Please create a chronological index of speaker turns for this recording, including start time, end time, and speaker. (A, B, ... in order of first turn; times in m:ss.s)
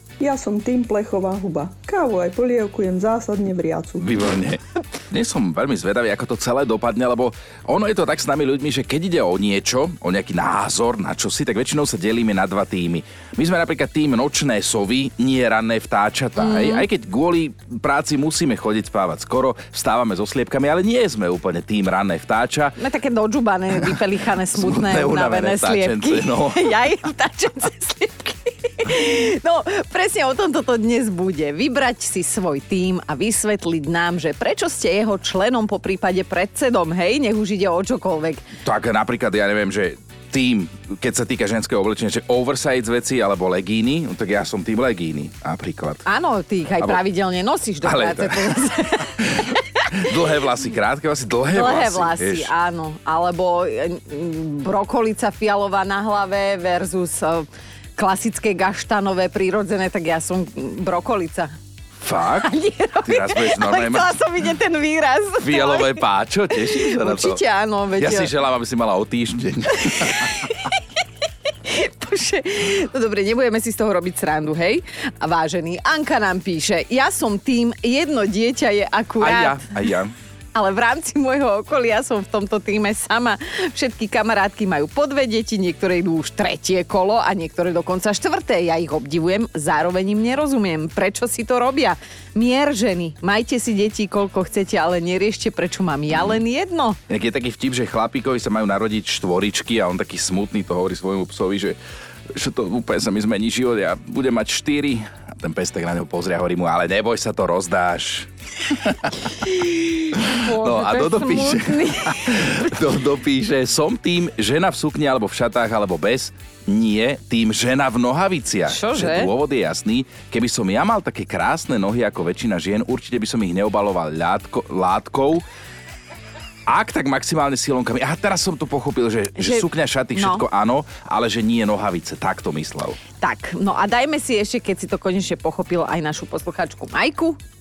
0:00.2-0:04.1 A
0:04.0-0:22.8 B
0:16.4-0:16.8 C
0:22.8-0:38.5 C
0:24.5-0:26.7 B
0:38.6-0:46.0 B
0:46.0-0:50.1 C
0:47.8-0:52.5 B
0:51.5-1:01.5 C
1:02.0-1:02.5 B
1:02.4-1:06.0 C
1:03.0-1:04.1 B
1:05.4-1:07.4 B
1:06.5-1:08.3 C
1:08.0-1:10.5 B
1:09.9-1:10.8 C
1:11.6-1:19.6 C
1:19.2-1:20.1 B
1:20.5-1:37.0 C
1:36.1-1:36.4 B
1:37.1-1:41.8 B
1:42.3-1:49.5 B
1:49.5-1:52.6 C
1:50.1-2:05.4 B
1:58.7-1:59.3 C
2:06.7-2:13.0 B
2:09.4-2:10.4 C
2:13.2-2:17.4 C